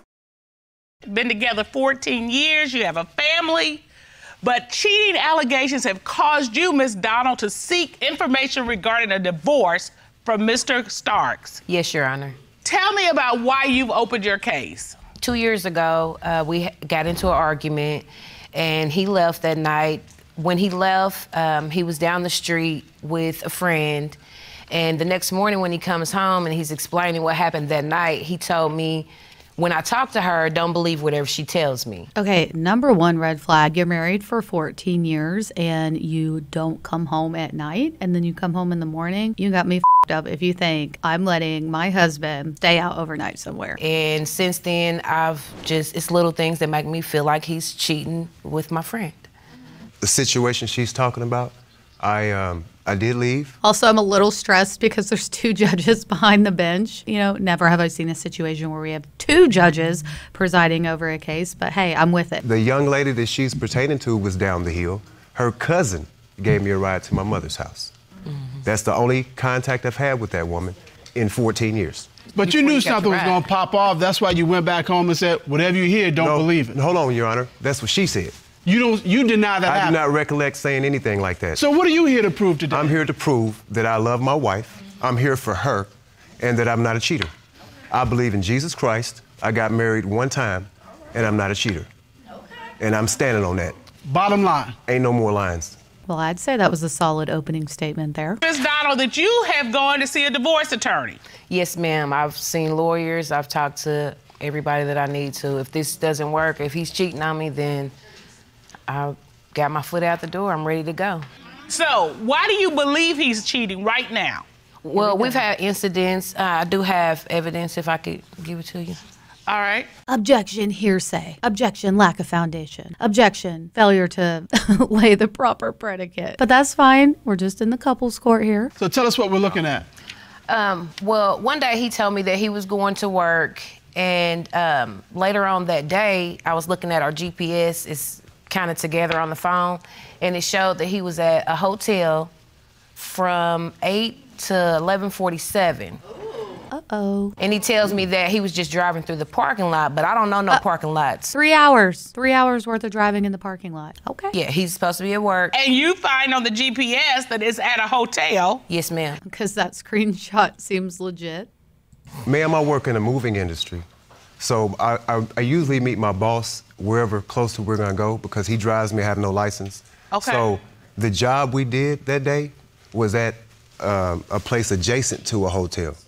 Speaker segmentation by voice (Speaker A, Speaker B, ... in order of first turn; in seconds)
Speaker A: 1.1-3.9, 4.4-11.6, 12.6-15.0, 98.4-101.2, 111.7-114.5, 119.5-119.9, 155.5-158.6, 170.1-170.5
Speaker B: 11.7-12.4, 15.2-24.2, 24.7-32.1, 43.8-49.3, 72.4-73.5, 101.5-107.9, 108.9-111.2, 114.8-119.0, 130.5-142.3, 143.0-146.0, 147.4-151.3, 154.3-155.6, 158.7-159.2
Speaker C: 32.1-43.8, 53.6-62.4, 96.1-98.4, 115.0-115.4, 120.1-128.7, 146.7-147.4, 151.3-154.4, 159.2-161.5
Speaker D: 50.0-53.5, 62.4-67.9, 68.6-72.1, 76.2-78.3, 79.7-81.6, 82.7-87.3, 87.9-91.9, 92.8-93.7, 94.9-95.8, 162.3-163.8, 164.4-176.0
Speaker E: 72.4-76.8, 78.7-80.0, 81.6-83.0, 94.1-94.8, 128.8-129.9